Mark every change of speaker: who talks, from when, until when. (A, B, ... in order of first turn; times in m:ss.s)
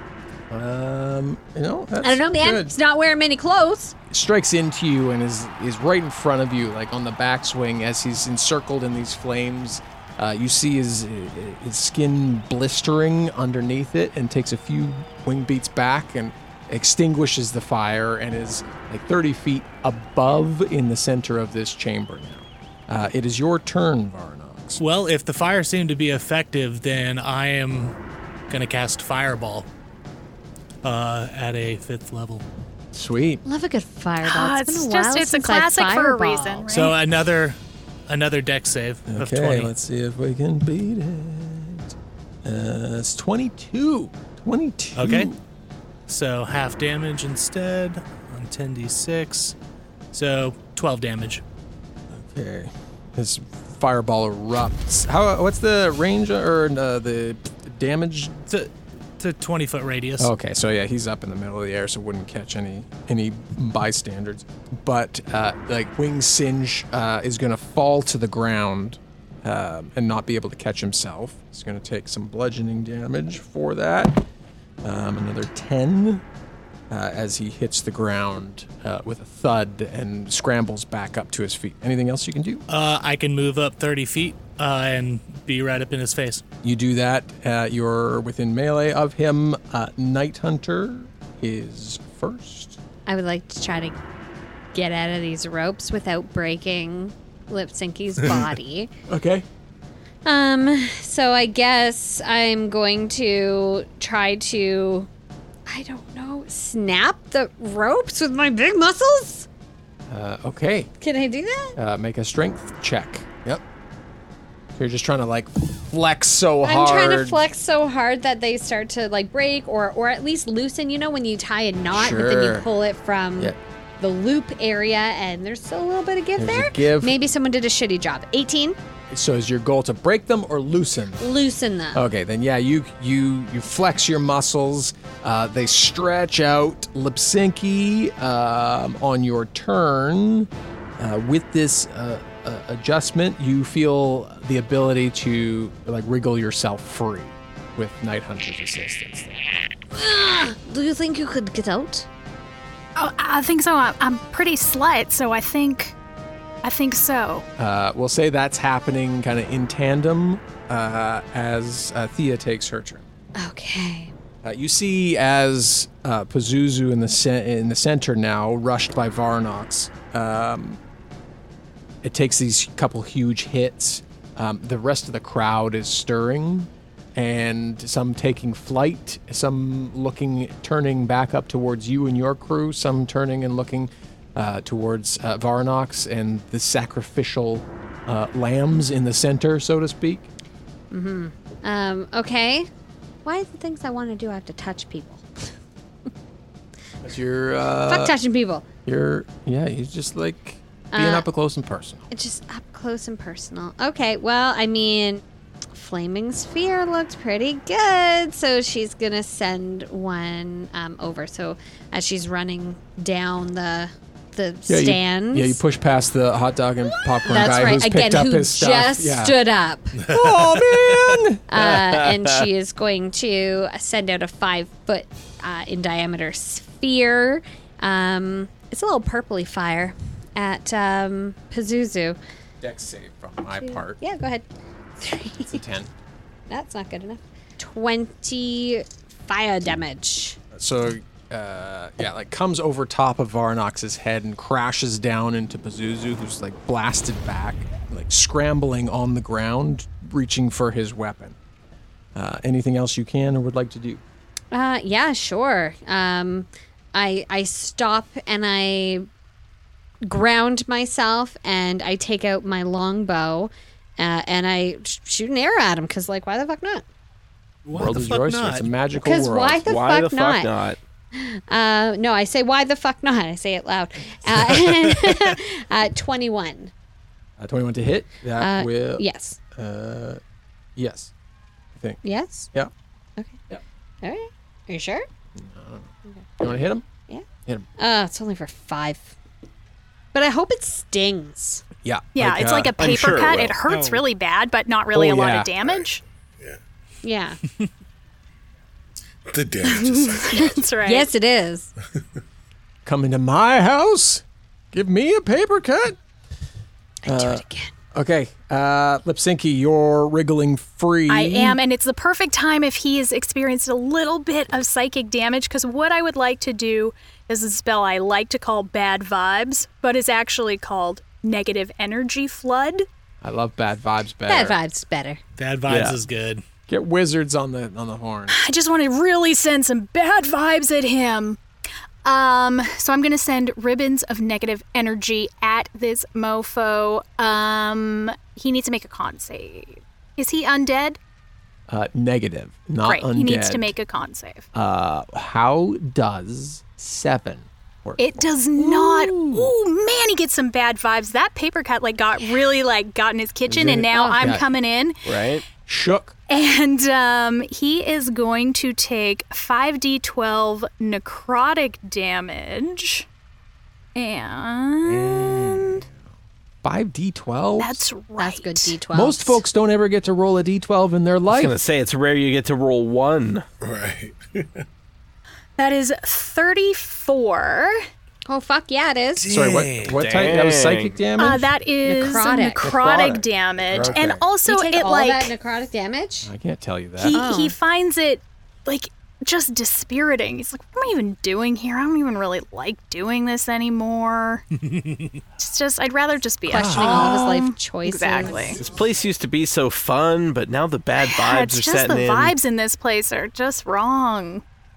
0:00.5-0:02.8 A
0:02.0-0:03.9 B
0:04.1-0:24.8 A
0:24.8-0:27.9 C
0:28.5-0:29.7 C
0:30.8-0:32.4 C
0:32.9-0:33.4 A
0:33.4-0:36.7 B
0:34.2-0:37.0 D
0:36.7-0:39.7 C
0:39.1-0:45.4 A
0:45.0-0:45.3 C
0:46.1-0:49.6 C
0:50.1-0:51.4 C
0:52.1-0:58.4 A
0:58.5-1:00.3 C
1:00.2-1:14.3 A
1:14.8-1:16.2 A
1:16.9-1:22.6 A
1:22.7-1:26.4 C
1:26.6-1:32.8 A
1:33.1-1:34.0 B
1:34.7-1:38.9 B
1:39.1-1:39.4 A
1:40.2-1:45.1 B
1:45.7-1:49.5 B
1:50.1-1:50.9 A
1:51.0-1:51.8 B
1:51.8-1:53.6 A
1:54.7-1:57.4 A
1:56.6-2:08.8 B
2:01.9-2:02.6 A
2:06.4-2:07.2 A
2:09.1-2:11.2 A
2:11.2-2:12.0 B
2:11.9-2:29.4 A
2:29.9-2:32.1 B
2:33.0-2:36.0 D
2:36.6-2:37.4 D
2:37.6-2:43.0 A
2:43.4-2:44.1 B
2:44.4-2:50.8 A
2:52.0-3:10.3 A
3:10.9-3:12.7 B
3:13.2-3:15.3 B
3:17.0-3:18.1 A
3:17.9-3:18.7 B
3:18.9-3:22.1 A
3:20.9-3:21.3 B
3:22.1-3:25.2 B
3:25.7-3:35.6 B
3:34.7-3:39.4 A
3:37.2-3:40.0 B
3:40.1-3:41.6 A
3:40.1-3:40.4 C
3:41.5-3:52.2 B
3:41.7-3:42.3 E
3:52.6-3:54.0 A
3:53.6-3:54.4 B
3:55.0-3:55.6 B
3:55.4-3:55.9 A
3:56.5-4:00.4 B
4:00.5-4:11.4 A
4:12.1-4:14.0 A
4:14.5-4:19.1 B
4:20.0-4:26.8 B
4:27.6-4:28.7 C
4:27.7-4:29.7 A
4:29.0-4:30.5 B
4:29.6-4:30.8 E
4:31.1-4:36.7 B
4:37.4-4:40.2 A
4:38.4-4:39.4 B
4:40.8-4:41.1 A
4:41.7-4:42.0 A
4:42.0-4:42.5 B
4:44.0-4:45.0 B
4:45.4-4:46.9 A
4:46.1-4:46.4 B
4:47.8-4:49.1 B
4:50.1-4:51.6 B
4:51.8-4:52.8 A
4:52.2-4:56.0 D
4:52.8-4:53.6 E
4:54.9-4:55.5 A
4:57.0-4:57.4 B
4:59.3-5:00.6 F
4:59.6-5:01.1 D
5:00.8-5:01.7 B
5:02.8-5:06.0 A
5:07.1-5:07.7 B
5:07.1-5:11.6 A
5:11.1-5:22.9 D
5:23.2-5:24.6 A
5:24.3-5:25.2 B
5:25.4-5:26.4 C
5:25.7-5:25.9 E
5:26.7-5:28.3 A
5:28.3-5:31.4 D
5:32.0-5:41.0 D
5:41.7-5:43.7 A
5:42.8-5:44.5 D
5:44.5-5:49.5 A
5:48.0-5:55.0 D
5:52.2-5:52.5 B
5:53.5-5:54.4 A
5:55.0-5:55.4 E
5:55.7-5:56.1 A
5:56.3-6:03.1 D
6:03.9-6:05.8 D
6:04.8-6:05.9 A
6:06.6-6:07.8 A
6:07.6-6:08.7 D
6:08.2-6:09.4 B
6:08.9-6:11.6 A
6:11.3-6:13.4 E
6:13.6-6:14.6 F
6:15.6-6:17.8 D
6:18.3-6:19.3 B
6:19.3-6:21.4 A
6:19.3-6:20.0 C
6:19.9-6:21.0 E
6:21.2-6:25.4 D
6:21.8-6:22.8 B
6:22.6-6:24.2 A
6:24.4-6:26.3 B
6:26.2-6:27.2 A
6:27.0-6:34.4 D
6:27.1-6:27.6 B
6:34.7-6:35.1 C
6:35.4-6:38.6 D
6:36.5-6:38.6 B
6:36.5-6:37.1 A
6:38.6-6:42.4 E
6:41.0-6:44.4 D